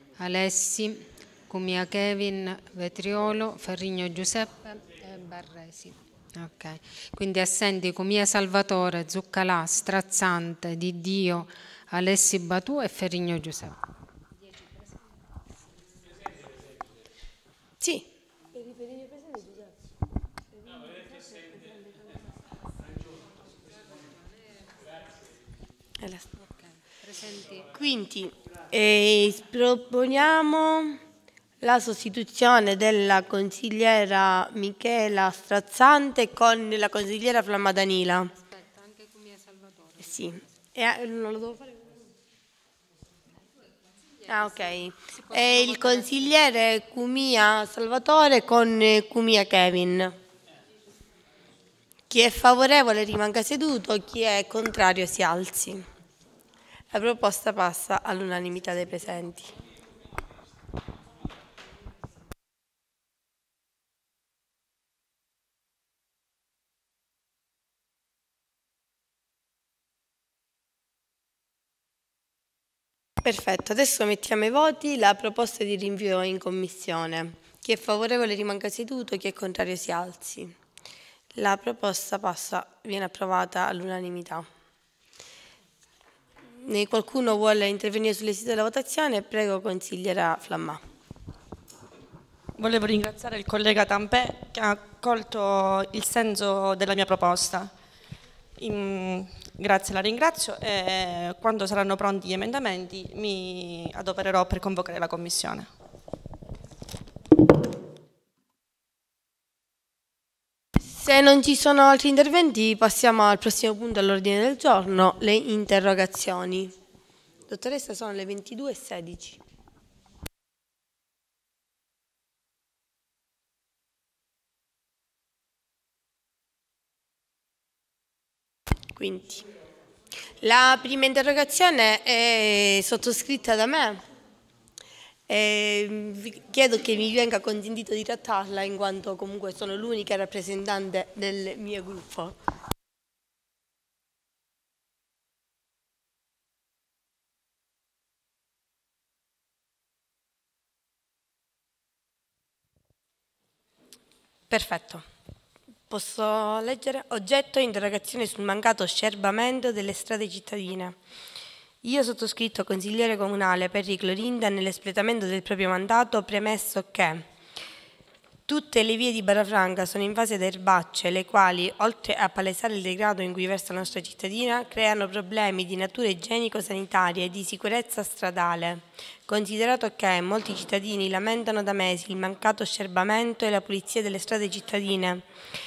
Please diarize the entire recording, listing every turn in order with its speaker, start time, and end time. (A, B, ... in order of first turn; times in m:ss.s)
0:00.2-0:13.8 A
0:17.8-0:18.1 B
0:26.0-0:26.3 B
0:27.0-0:27.7 A
0:27.7-0:31.0 B
0:31.6-0:38.3 B
0:38.3-0:40.3 A
0:40.0-0:41.8 B
0:44.2-0:46.3 A
0:44.3-0:50.1 B
0:52.1-0:55.8 B
0:56.9-0:59.5 B
1:13.2-1:20.5 B
1:21.4-1:24.5 B
1:26.6-1:30.8 B
1:32.6-1:37.7 C
1:38.6-1:45.7 C
1:50.9-1:56.7 B
1:57.5-1:59.4 B
2:09.0-2:09.4 B
2:10.4-2:14.0 B
2:15.3-2:22.4 B
2:34.5-2:35.0 B
2:35.9-2:41.0 B
2:41.8-2:47.2 B
2:48.5-3:05.2 B